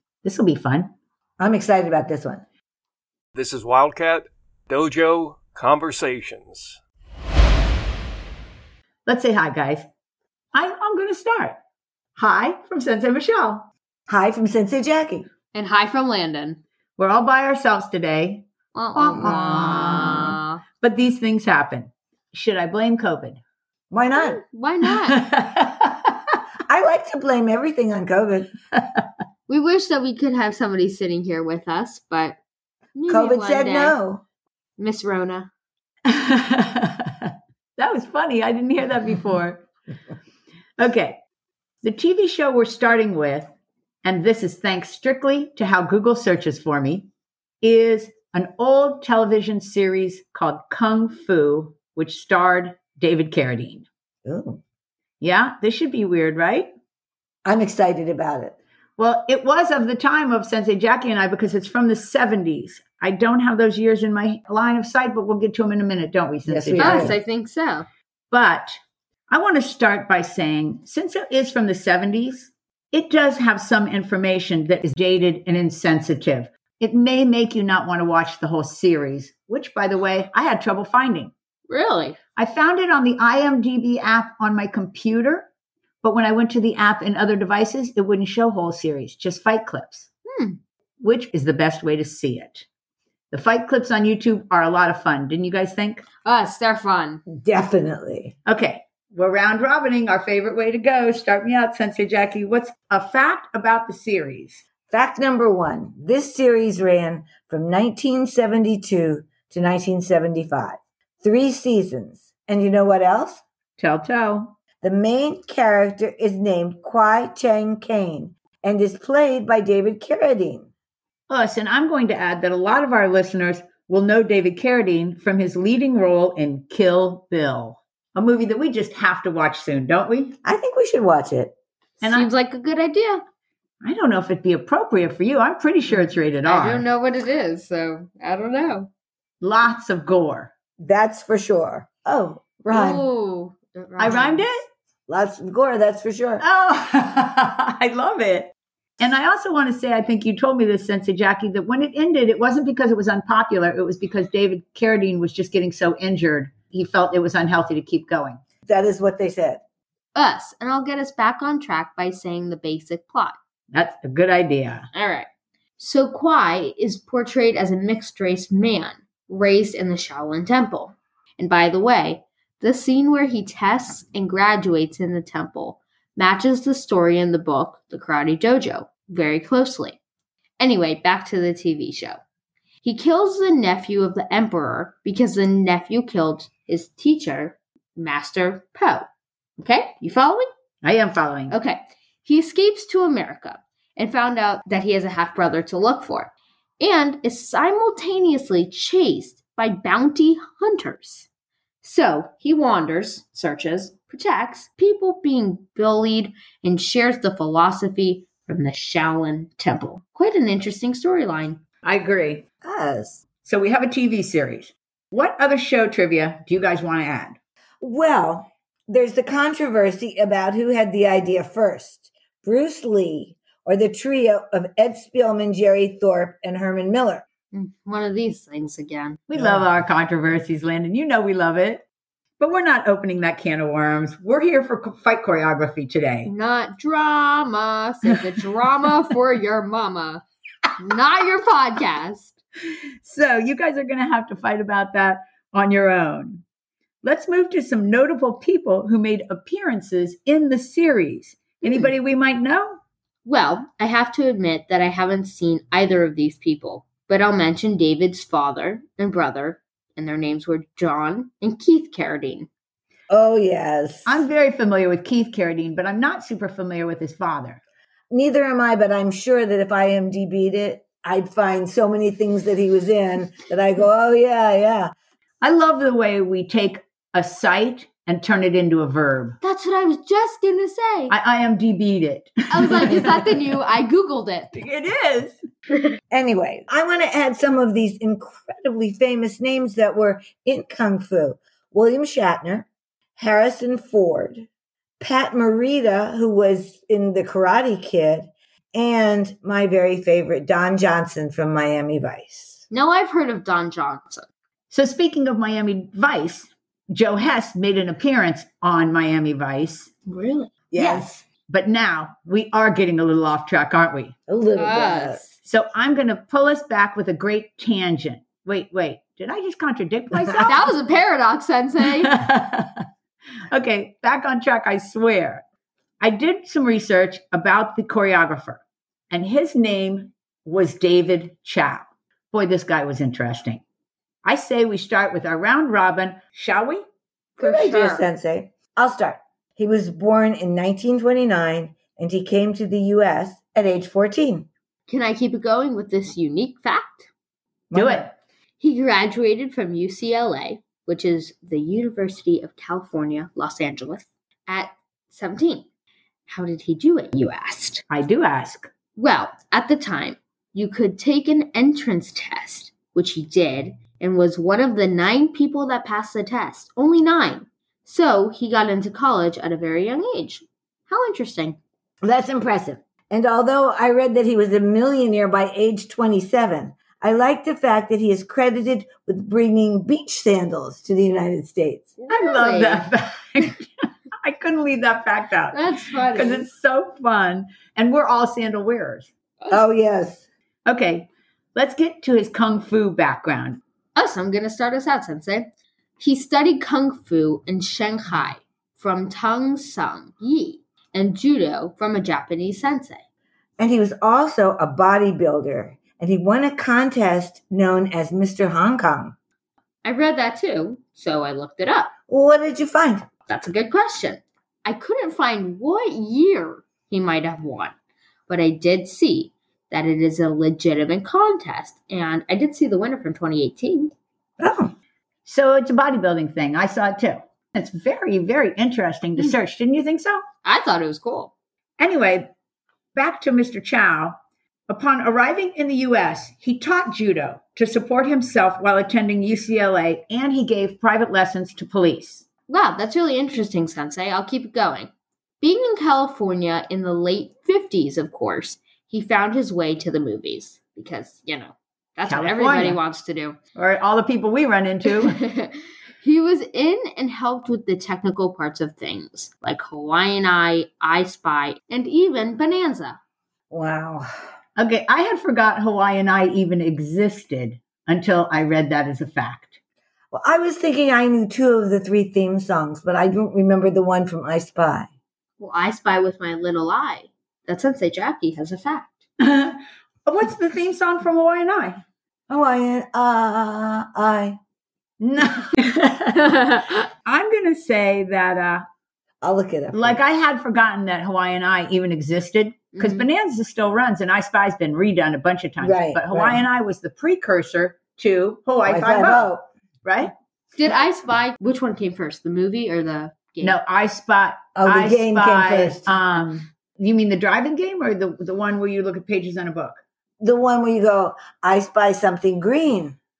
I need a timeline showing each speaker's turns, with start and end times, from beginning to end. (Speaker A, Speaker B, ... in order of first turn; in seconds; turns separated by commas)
Speaker A: 0.2-0.9, Speaker B: 1.4-2.4, Speaker C: 3.4-6.8, Speaker A: 9.1-9.9, Speaker A: 10.5-11.6, Speaker A: 12.2-13.7, Speaker B: 14.1-15.3, Speaker D: 15.5-16.6, Speaker A: 17.0-23.4, Speaker D: 18.7-20.6, Speaker B: 19.1-20.2, Speaker B: 23.9-24.4, Speaker D: 24.2-25.2, Speaker A: 25.0-26.1, Speaker B: 26.7-28.5, Speaker A: 28.8-29.0, Speaker D: 29.5-32.4, Speaker D: 33.0-34.0, Speaker B: 33.1-34.2, Speaker D: 34.8-35.5, Speaker A: 36.1-39.6, Speaker A: 40.8-41.2, Speaker A: 41.8-43.5, Speaker A: 44.0-47.1, Speaker A: 47.6-53.9, Speaker B: 54.2-54.6, Speaker A: 55.2-56.7, Speaker B: 57.5-58.5, Speaker A: 59.0-67.2, Speaker B: 66.5-67.2, Speaker D: 66.8-67.9, Speaker A: 68.3-68.8, Speaker A: 69.3-81.3, Speaker D: 81.7-82.2, Speaker A: 82.4-85.5, Speaker A: 86.0-90.1, Speaker D: 90.3-90.6, Speaker A: 91.0-92.7, Speaker A: 93.3-96.0, Speaker D: 96.2-97.2, Speaker B: 97.3-98.3, Speaker A: 98.5-104.6, Speaker B: 104.9-113.4, Speaker A: 113.8-114.6, Speaker B: 114.8-120.7, Speaker A: 121.3-130.4, Speaker B: 130.4-131.5, Speaker D: 132.0-133.2, Speaker A: 132.0-132.3, Speaker A: 133.8-136.9, Speaker D: 136.4-138.9, Speaker A: 139.4-140.5, Speaker B: 140.8-143.1, Speaker D: 142.7-144.4, Speaker A: 144.0-144.7, Speaker B: 145.1-146.4, Speaker A: 146.4-158.4, Speaker B: 158.7-159.6, Speaker D: 160.2-163.4, Speaker A: 163.7-164.9, Speaker D: 164.9-180.0, Speaker D: 180.6-182.2, Speaker D: 182.8-189.1, Speaker D: 189.6-190.5, Speaker A: 190.8-191.6, Speaker D: 191.5-201.3, Speaker D: 201.8-211.6, Speaker A: 211.8-212.4, Speaker B: 212.6-213.2, Speaker A: 213.4-217.4, Speaker B: 217.8-227.2, Speaker D: 227.5-229.2, Speaker A: 229.3-231.8, Speaker B: 229.4-229.6, Speaker A: 232.4-236.3, Speaker D: 236.2-240.2, Speaker D: 240.8-242.4, Speaker A: 243.0-246.4, Speaker A: 247.0-252.8, Speaker D: 251.6-251.9, Speaker D: 253.2-262.5, Speaker B: 263.1-264.2, Speaker A: 264.1-267.6, Speaker B: 268.1-274.9, Speaker A: 275.4-279.4, Speaker D: 279.4-281.1, Speaker A: 281.1-283.2, Speaker D: 282.5-284.5, Speaker A: 284.6-285.4, Speaker B: 286.1-294.5, Speaker B: 295.0-302.6, Speaker D: 302.7-304.3, Speaker A: 304.7-309.9, Speaker B: 310.1-311.1, Speaker A: 310.8-314.1, Speaker B: 314.3-315.2, Speaker D: 314.6-315.4, Speaker A: 315.4-320.6, Speaker D: 320.3-322.1, Speaker A: 321.9-322.9, Speaker A: 323.5-325.4, Speaker A: 326.0-333.6, Speaker A: 334.2-336.8, Speaker D: 337.4-338.1, Speaker B: 337.4-344.5, Speaker D: 344.9-347.1, Speaker B: 347.7-348.1, Speaker A: 347.7-348.1, Speaker D: 348.6-355.7, Speaker D: 356.3-357.8, Speaker A: 357.9-358.7, Speaker D: 359.0-371.6, Speaker B: 372.0-381.9, Speaker D: 382.0-382.8, Speaker A: 382.1-383.6, Speaker A: 384.2-389.1, Speaker D: 385.5-386.5, Speaker D: 389.4-389.7, Speaker B: 389.5-390.3, Speaker A: 390.7-393.6, Speaker D: 394.0-403.0, Speaker B: 403.6-409.2, Speaker D: 409.8-411.9, Speaker B: 412.1-413.1, Speaker D: 413.3-417.8, Speaker D: 418.3-423.9, Speaker B: 424.4-424.8, Speaker A: 425.2-430.2, Speaker D: 430.4-431.3, Speaker A: 431.8-432.3, Speaker A: 432.9-442.3, Speaker D: 442.5-453.4, Speaker A: 452.1-452.8, Speaker A: 453.6-455.2, Speaker D: 455.1-463.0, Speaker B: 463.5-464.1, Speaker A: 464.6-469.6, Speaker B: 470.1-474.9, Speaker D: 475.4-478.9, Speaker A: 479.2-481.8, Speaker B: 482.3-484.4, Speaker A: 485.0-486.2, Speaker A: 487.1-488.7, Speaker B: 489.2-490.0, Speaker A: 489.7-499.3, Speaker D: 492.8-493.1, Speaker B: 495.6-496.4, Speaker B: 498.7-499.4, Speaker A: 499.8-500.1, Speaker D: 500.6-503.6, Speaker A: 503.4-509.8, Speaker B: 504.6-505.9, Speaker B: 510.2-513.0